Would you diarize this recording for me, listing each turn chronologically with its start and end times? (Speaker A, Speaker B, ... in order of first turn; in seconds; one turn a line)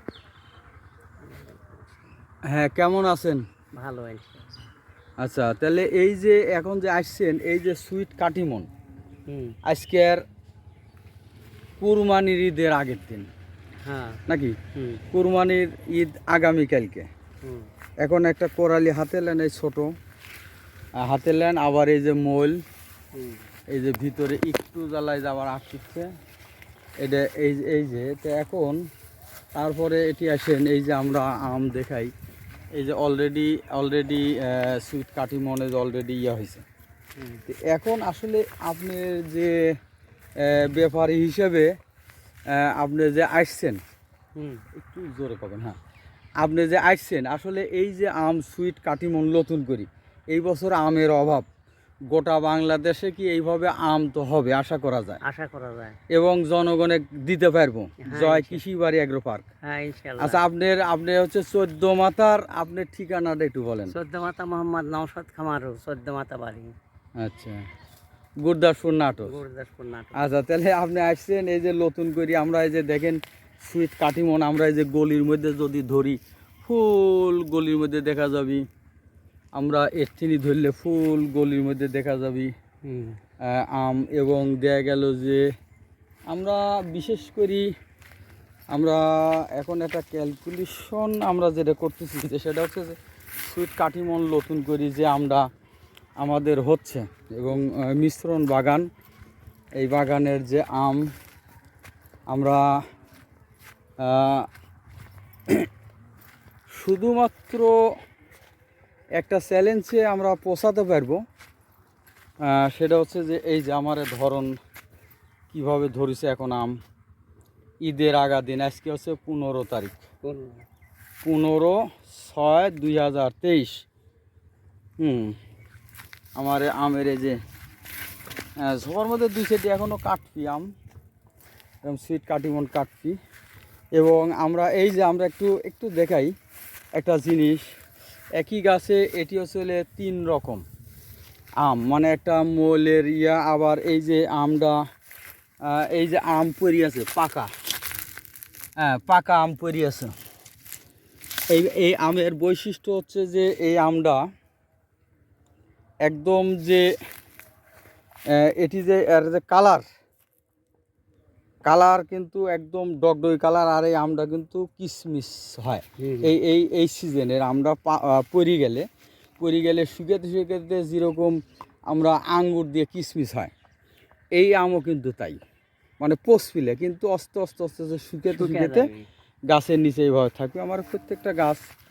Speaker A: 1.2-2.2
Speaker B: 2.5-3.4
Speaker A: 3.8-4.5
Speaker B: 5.2-8.7
Speaker A: 9.3-9.6
Speaker B: 9.7-10.2
Speaker B: 11.8-13.3
Speaker A: 13.8-14.2
Speaker B: 14.3-14.6
Speaker A: 14.7-15.0
Speaker B: 15.1-17.1
Speaker A: 17.4-17.7
Speaker B: 18.0-19.9
Speaker B: 21.0-22.6
Speaker A: 23.1-23.4
Speaker B: 23.7-26.1
Speaker B: 27.0-28.8
Speaker B: 29.6-32.1
Speaker B: 32.7-36.6
Speaker A: 37.2-37.4
Speaker B: 37.5-39.6
Speaker B: 40.4-41.7
Speaker B: 42.5-43.8
Speaker A: 44.3-44.6
Speaker B: 44.7-45.8
Speaker B: 46.4-51.5
Speaker B: 52.1-55.2
Speaker A: 55.2-56.0
Speaker B: 56.1-59.5
Speaker A: 58.0-58.6
Speaker A: 59.6-60.4
Speaker B: 60.2-63.9
Speaker A: 63.9-66.7
Speaker B: 67.2-67.6
Speaker B: 68.4-69.4
Speaker A: 69.2-70.2
Speaker B: 70.1-78.6
Speaker B: 79.5-82.5
Speaker A: 82.8-83.2
Speaker B: 83.4-85.5
Speaker B: 86.3-87.7
Speaker B: 88.7-95.5
Speaker B: 96.2-98.9
Speaker B: 99.8-101.1
Speaker B: 102.3-102.6
Speaker B: 104.0-104.5
Speaker B: 106.7-107.7
Speaker B: 109.2-111.2
Speaker B: 112.5-114.5
Speaker B: 115.5-116.7
Speaker B: 117.8-120.0
Speaker A: 120.2-120.6
Speaker B: 121.2-123.8
Speaker B: 125.0-125.3
Speaker B: 126.3-127.4
Speaker B: 128.6-130.7
Speaker B: 131.8-133.2
Speaker B: 133.9-136.3
Speaker B: 136.9-137.6
Speaker B: 138.3-140.6
Speaker B: 141.6-144.8
Speaker B: 145.6-147.5
Speaker B: 148.8-150.1
Speaker B: 151.5-154.2
Speaker B: 156.0-156.9
Speaker B: 158.3-159.8
Speaker B: 161.7-168.8
Speaker A: 166.0-166.3
Speaker B: 169.4-171.4
Speaker B: 171.9-173.5
Speaker B: 174.3-175.4
Speaker B: 176.0-178.9
Speaker A: 178.3-179.1
Speaker B: 179.5-181.6